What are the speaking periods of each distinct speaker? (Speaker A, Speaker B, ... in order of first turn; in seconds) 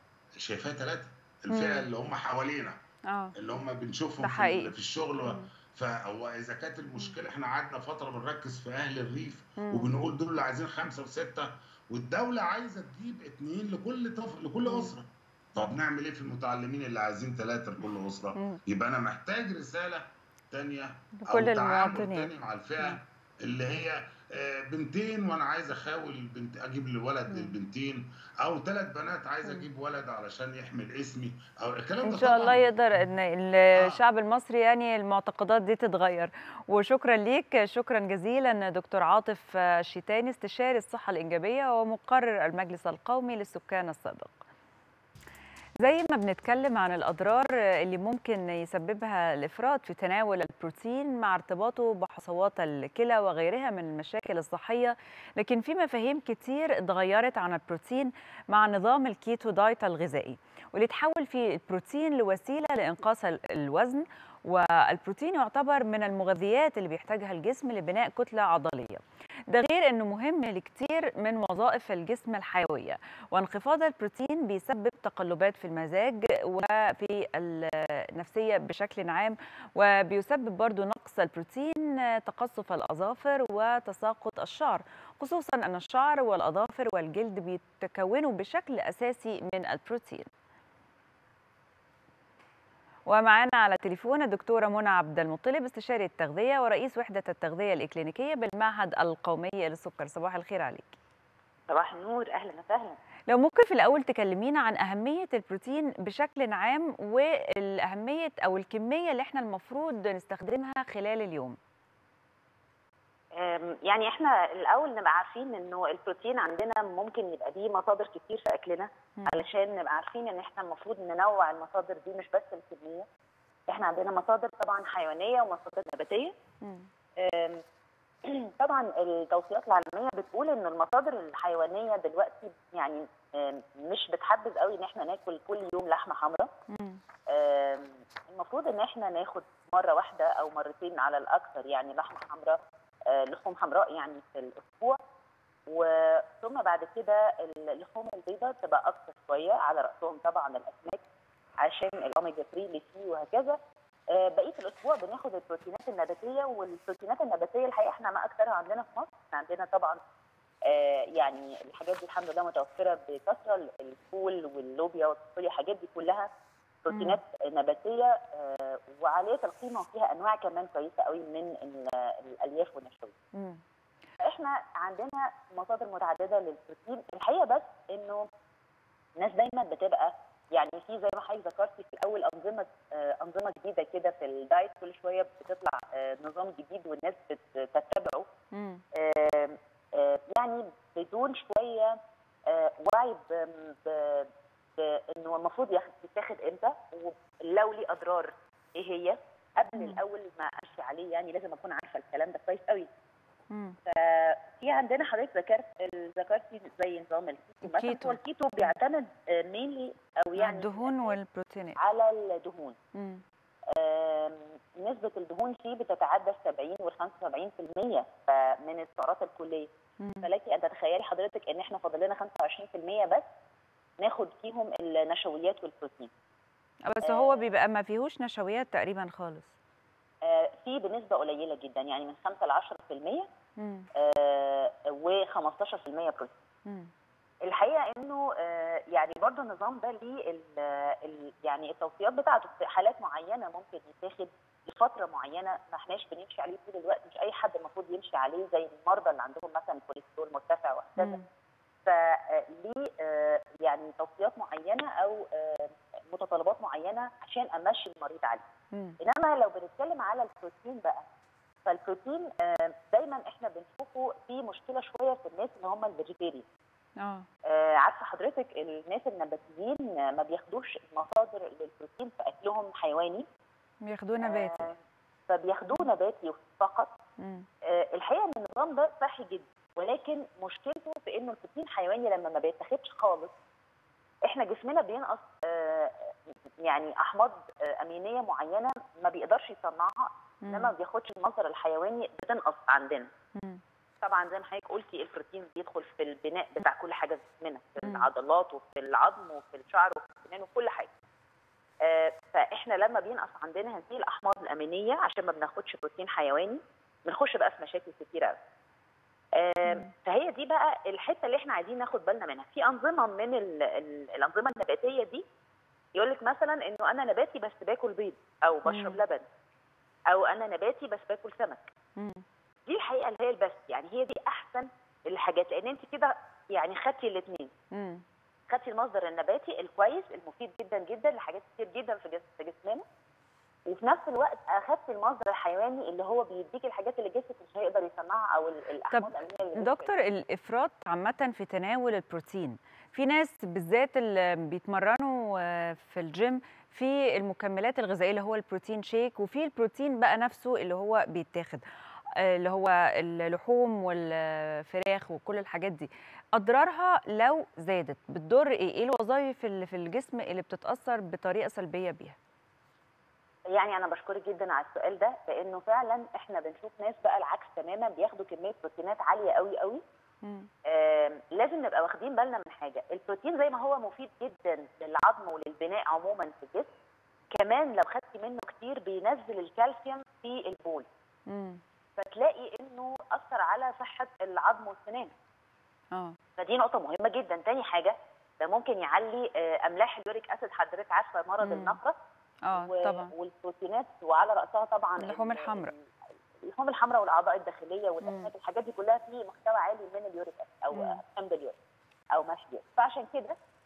Speaker A: 0.4-2.8, 3.4-32.6
Speaker B: 1.5-1.9, 3.1-3.3, 4.2-5.5, 9.6-9.9, 14.6-14.9, 21.2-22.3, 32.0-44.4, 45.8-90.3, 93.1-100.9, 103.3-111.6, 126.6-126.9, 136.7-137.0, 166.9-167.2, 173.3-173.6, 188.5-188.8, 199.8-200.0, 203.5-203.8, 207.6-208.7, 210.3-211.8, 212.9-213.2, 220.0-220.3, 226.9-229.5, 233.6-233.9, 236.7-236.9, 251.0-251.2, 267.0-267.3, 273.8-274.7, 277.2-277.4, 290.4-290.7, 297.8-298.1, 309.6-309.9, 318.6-319.0, 322.0-322.2, 327.7-328.0, 338.9-351.6, 352.2-362.1, 370.2-370.5, 381.3-381.6, 391.4-391.8, 392.4-393.1, 395.0-395.7, 398.0-398.3, 400.7-401.0
Speaker C: 101.7-103.0, 113.4-123.1, 123.7-126.3, 127.2-127.6, 128.2-136.5, 137.3-142.6, 143.1-145.0, 145.7-151.0, 151.6-153.6, 154.1-160.0, 160.7-166.3, 166.8-173.1, 174.2-178.2, 179.2-188.3, 189.0-191.9, 192.5-202.9, 203.9-211.2, 211.8-212.8, 213.7-219.7, 220.2-223.2, 224.0-226.1, 227.0-227.4, 230.2-233.3, 234.0-236.4, 237.4-251.2, 251.8-258.4, 259.0-261.0, 261.6-266.4, 267.5-273.3, 274.2-274.7, 275.3-276.9, 277.8-283.3, 284.2-286.1, 286.6-293.1, 294.0-300.9, 301.8-308.4, 309.4-315.2, 315.9-319.2, 320.1-321.7, 322.7-327.5, 328.5-332.8, 333.7-339.9, 363.5-369.8, 370.7-376.7, 377.4-380.9, 382.0-385.1, 386.4-392.0, 392.5-395.8, 396.5-401.5, 402.1-403.3